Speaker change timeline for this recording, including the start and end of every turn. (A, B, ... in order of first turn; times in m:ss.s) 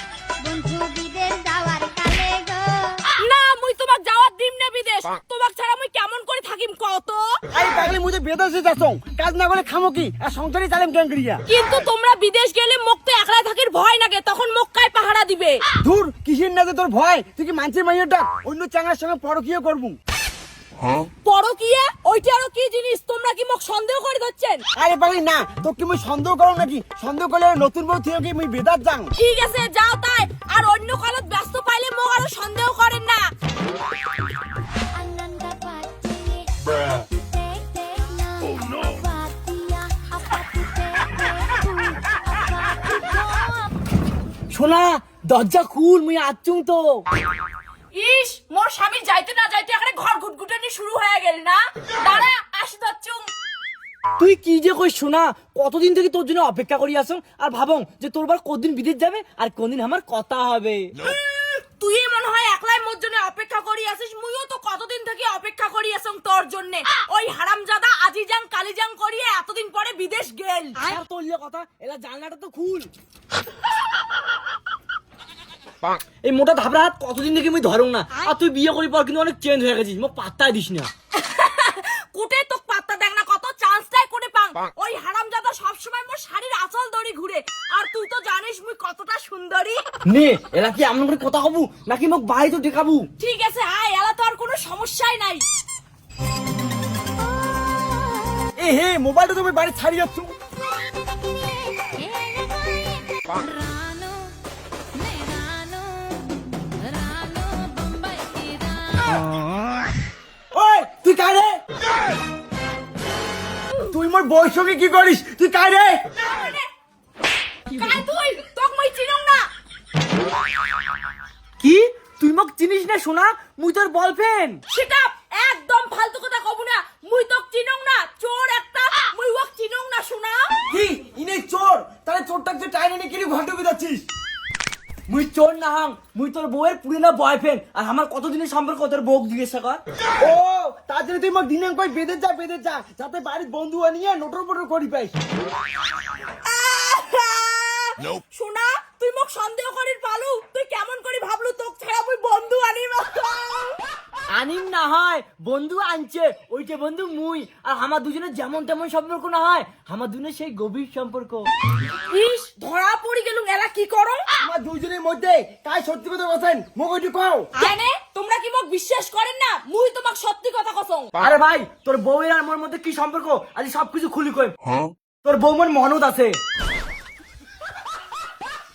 0:00.4-0:03.0 A
0:03.2-0:07.3 B
0:07.5-0:11.4 C
0:11.5-0:15.6 B
0:15.8-0:20.0 C
0:21.2-0:24.6 B
0:24.8-0:29.1 C
0:29.2-0:33.3 B
0:34.9-0:43.7 A
0:44.5-0:47.1 D
0:47.9-0:53.3 B
0:54.2-1:01.0 D
1:01.0-1:10.9 B
1:10.8-1:12.9 D
1:16.2-1:20.9 D
1:21.1-1:29.8 B
1:30.1-1:33.1 D
1:33.2-1:35.4 B
1:38.6-1:40.3 C
1:41.8-1:43.4 A
1:48.1-1:48.4 B
1:50.5-1:51.6 C
1:53.9-1:56.0 C
1:56.2-1:56.7 B
1:57.7-1:59.5 B
2:01.6-2:04.6 D
2:04.7-2:10.6 B
2:10.7-2:14.0 C
2:15.1-2:19.8 D
2:20.2-2:25.2 C
2:26.4-2:33.8 B
2:34.3-2:41.5 D
2:42.1-2:44.2 B
2:44.4-2:47.5 C
2:47.6-2:51.1 B
2:51.2-2:54.6 D
2:55.2-2:56.4 D